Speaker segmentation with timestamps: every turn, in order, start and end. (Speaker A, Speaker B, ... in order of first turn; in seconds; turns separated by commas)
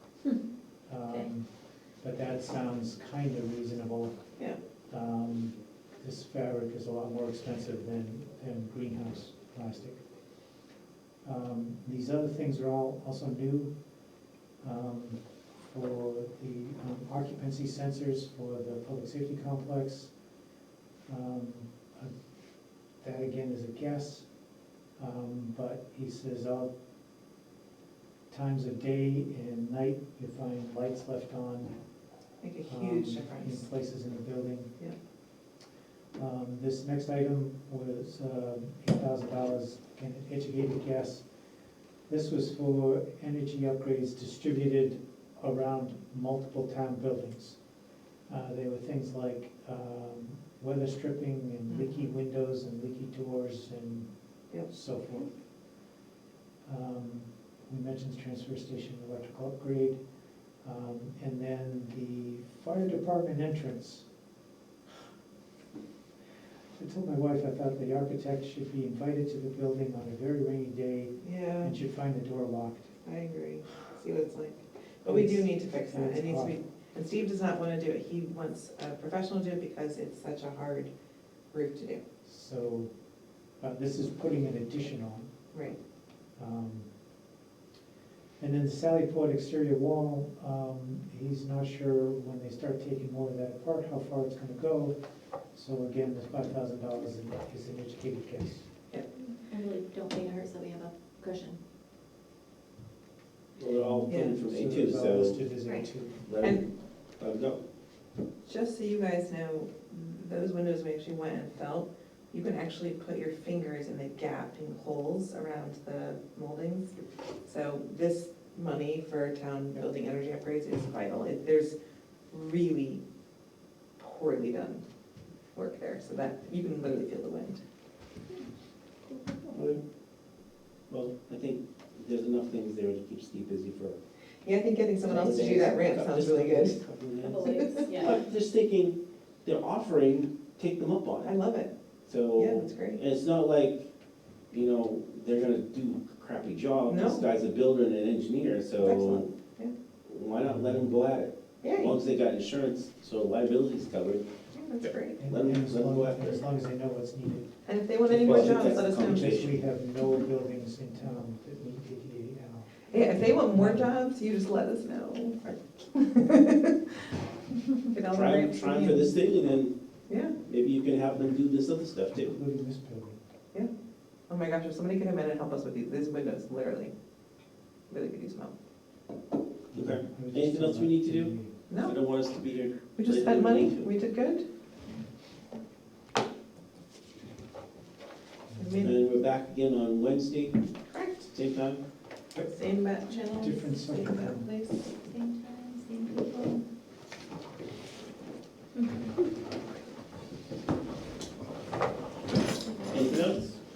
Speaker A: 0.9-4.3, Speaker A: 4.8-10.1, Speaker A: 11.2-13.9, Speaker A: 14.6-20.2, Speaker A: 21.1-22.1, Speaker A: 22.9-24.4, Speaker A: 24.9-26.7, Speaker A: 28.3-31.8, Speaker B: 32.4-33.6, Speaker A: 32.6-34.7, Speaker A: 36.1-41.3, Speaker A: 42.1-47.6, Speaker A: 48.3-55.3, Speaker B: 51.7-51.9, Speaker B: 54.5-55.3, Speaker A: 56.6-60.0, Speaker A: 60.6-64.1, Speaker A: 66.8-72.9, Speaker B: 71.2-71.7, Speaker B: 73.0-80.9, Speaker A: 75.1-76.6, Speaker B: 81.5-82.0, Speaker A: 82.2-83.0, Speaker A: 83.6-85.3, Speaker B: 85.5-85.8, Speaker A: 86.3-86.9, Speaker A: 88.4-98.7, Speaker C: 99.4-101.6, Speaker D: 103.6-105.5, Speaker A: 103.7-106.3, Speaker B: 104.1-104.4, Speaker D: 106.2-107.6, Speaker B: 108.5-121.8, Speaker B: 122.3-123.0, Speaker B: 124.0-124.8, Speaker B: 125.5-127.6, Speaker C: 129.1-129.5, Speaker D: 129.5-129.8, Speaker D: 130.9-134.0, Speaker B: 134.4-136.8, Speaker D: 135.0-141.3, Speaker C: 137.2-138.2, Speaker B: 137.4-137.9, Speaker B: 141.2-141.7, Speaker D: 142.1-143.9, Speaker B: 142.3-143.0, Speaker D: 144.5-149.3, Speaker B: 146.9-147.2, Speaker B: 148.8-149.7, Speaker D: 150.1-154.3, Speaker A: 150.5-150.9, Speaker B: 151.6-152.0, Speaker B: 154.5-155.2, Speaker D: 154.8-156.4, Speaker A: 155.2-157.6, Speaker B: 157.7-159.4, Speaker D: 158.1-159.6, Speaker A: 158.2-162.9, Speaker B: 162.9-167.1, Speaker A: 163.5-163.9, Speaker B: 167.9-169.2, Speaker D: 168.1-169.8, Speaker B: 170.1-170.4, Speaker D: 170.3-172.4, Speaker A: 172.1-173.2, Speaker B: 174.3-176.9, Speaker B: 177.9-178.5, Speaker A: 179.7-181.5, Speaker D: 179.7-183.9, Speaker B: 181.7-181.9, Speaker B: 182.9-184.4, Speaker A: 188.5-188.8, Speaker B: 188.6-189.0, Speaker D: 188.8-190.6, Speaker B: 190.9-191.3, Speaker D: 191.3-191.8, Speaker B: 192.4-194.9, Speaker A: 193.4-194.5, Speaker C: 195.0-196.6, Speaker C: 198.8-199.1, Speaker C: 202.6-203.2, Speaker D: 202.9-203.5